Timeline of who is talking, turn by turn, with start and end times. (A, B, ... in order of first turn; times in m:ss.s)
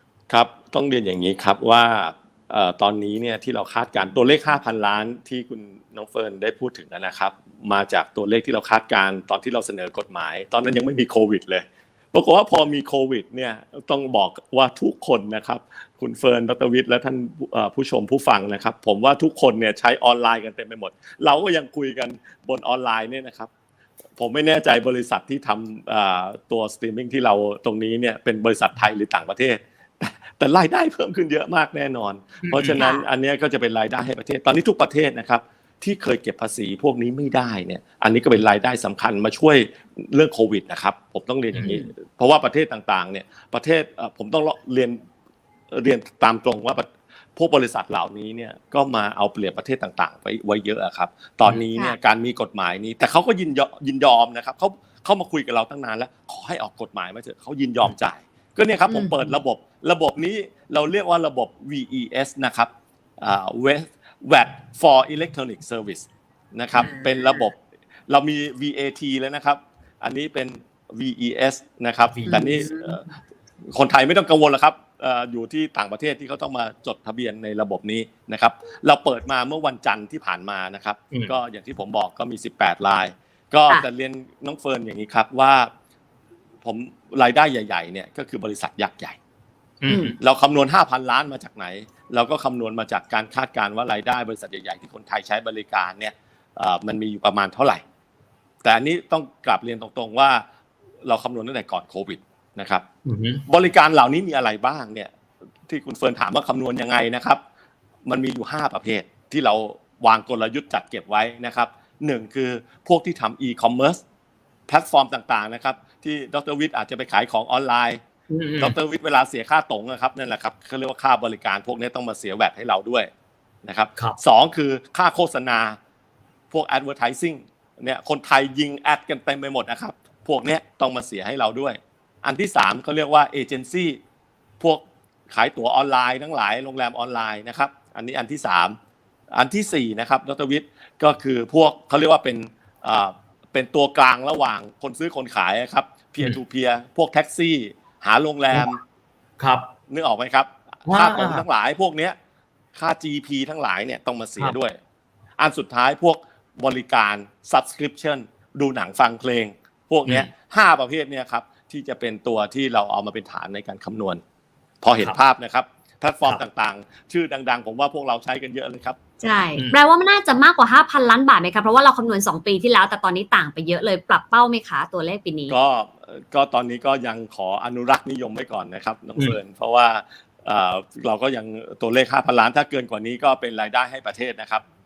0:00.3-0:23.5 A
0:24.2-0:45.0 A
0:32.4-0:32.8 B
0:32.8-0:33.1 C
0:45.7-1:13.1 A
0:58.9-0:59.4 C
1:06.8-1:07.4 C
1:12.1-1:12.8 B
1:12.3-1:12.7 C
1:13.7-1:25.7 A
1:26.6-1:29.2 A
1:29.8-1:30.2 B
1:29.9-1:30.2 C
1:30.2-1:37.8 A
1:38.6-1:40.4 A
1:41.0-1:42.8 A
1:43.0-1:43.4 B
1:43.5-1:45.1 A
1:45.7-1:47.4 A
1:48.1-1:54.0 A
1:54.7-1:58.0 A
1:58.3-1:58.8 B
1:58.6-2:03.1 A
2:03.6-2:05.8 A
2:06.5-2:14.0 A
2:14.6-2:18.8 A
2:19.3-2:28.8 A
2:29.4-2:29.7 B
2:29.9-2:32.2 A
2:30.9-2:31.4 B
2:32.8-2:34.8 A
2:35.4-2:44.2 A
2:44.8-2:49.0 A
2:49.2-2:55.6 C
2:55.5-3:04.6 A